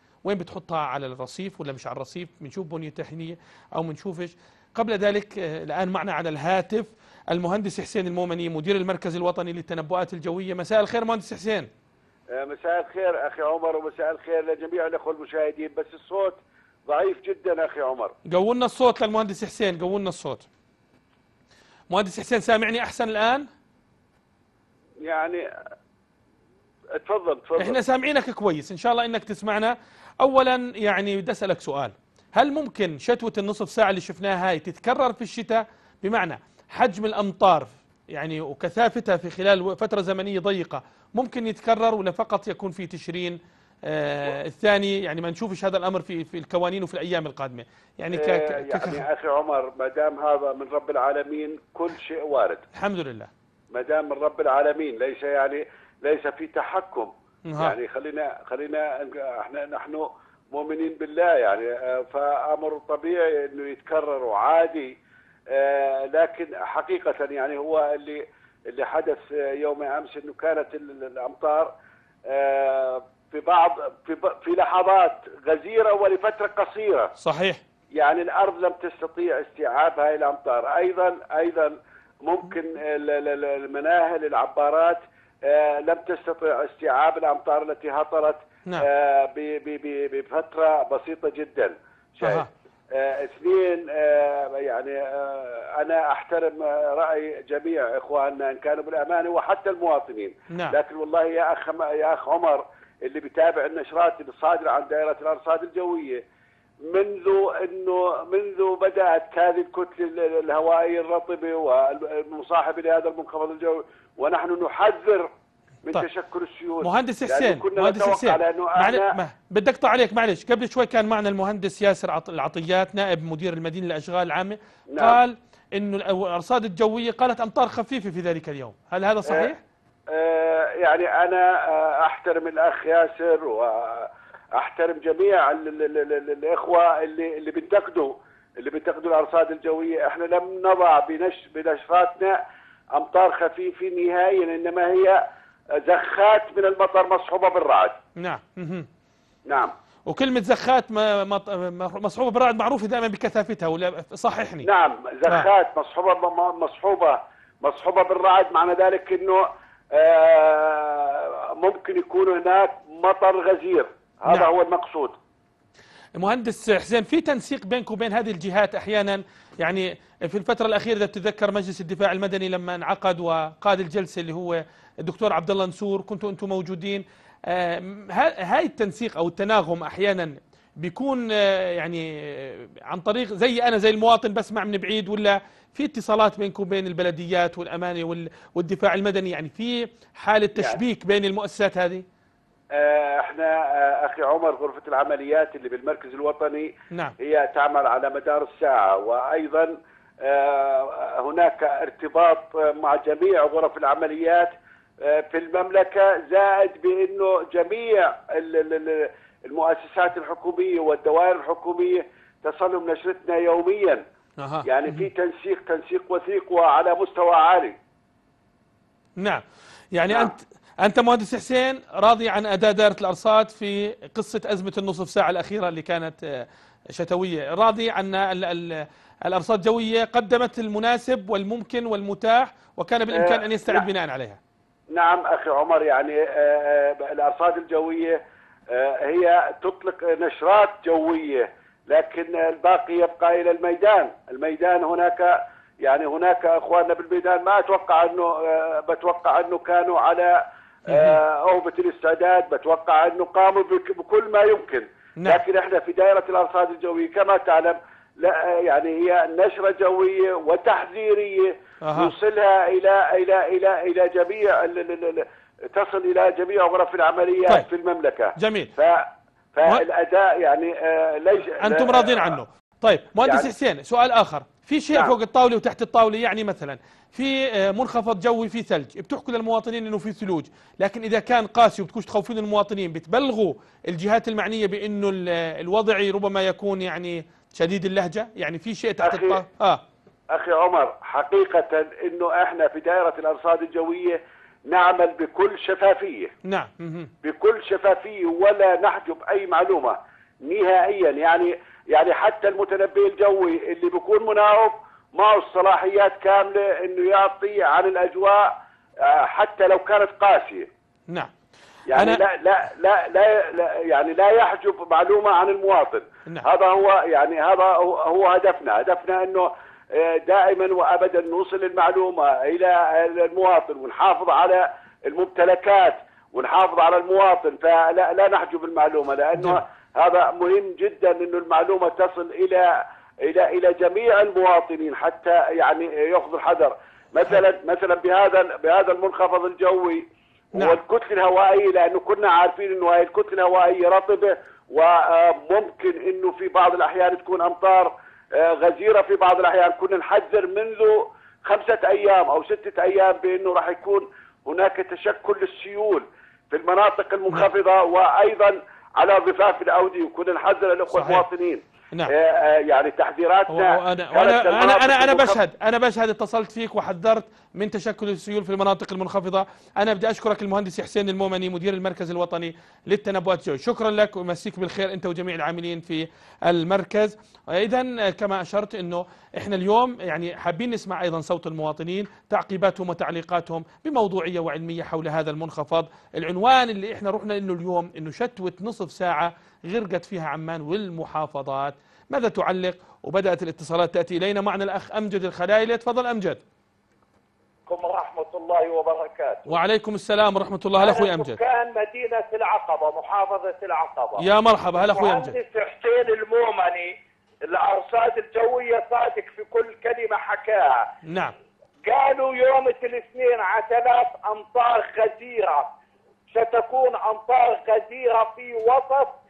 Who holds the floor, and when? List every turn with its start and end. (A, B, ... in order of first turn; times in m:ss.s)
0:00.2-0:11.7 A
0:12.3-0:18.2 B
0:18.3-0:20.5 A
0:21.9-0:23.5 A
0:25.0-0:25.4 B
0:27.0-0:27.8 B
0:27.6-0:49.0 A
0:48.2-0:52.6 B
0:52.7-0:53.3 A
0:53.7-1:05.0 B
0:57.5-0:57.8 A
1:05.5-1:11.7 B
1:12.3-1:17.1 B
1:17.2-1:17.6 A
1:18.0-1:46.2 B
1:32.2-1:32.5 A
1:40.5-1:40.8 A
1:46.9-1:55.3 B
1:55.9-1:59.0 B
1:56.8-2:09.6 A
2:04.9-2:05.2 B
2:10.1-2:22.4 B
2:23.0-2:25.2 B
2:25.8-2:28.0 B
2:28.2-2:28.9 A
2:29.5-2:29.7 B
2:30.1-2:34.7 A
2:34.6-2:39.4 B
2:40.0-2:45.2 B
2:46.2-3:12.0 A
3:12.8-3:24.5 B
3:25.0-3:34.0 B
3:34.4-3:35.1 A
3:34.7-3:37.8 B
3:39.9-3:54.4 A
3:53.1-3:53.8 B
3:54.9-3:58.2 B
3:58.7-4:32.4 B
4:10.9-4:11.2 A
4:21.8-4:22.1 A
4:28.4-4:28.7 A
4:31.6-4:49.8 A
4:33.2-4:33.5 B
4:49.0-4:49.4 B
4:50.3-4:56.3 B
4:56.4-4:57.1 A
4:57.2-5:08.5 B
5:09.0-5:10.7 B
5:11.9-6:05.4 B
5:11.9-5:12.2 A
6:00.9-6:01.3 A
6:03.5-6:36.4 A
6:37.7-6:39.4 C
6:39.5-6:41.4 A
6:40.8-6:44.2 C
6:44.2-6:45.4 A
6:44.8-6:46.9 C
6:47.4-6:50.9 C
6:51.1-6:51.4 A
6:51.8-6:55.7 C
6:56.3-6:59.2 C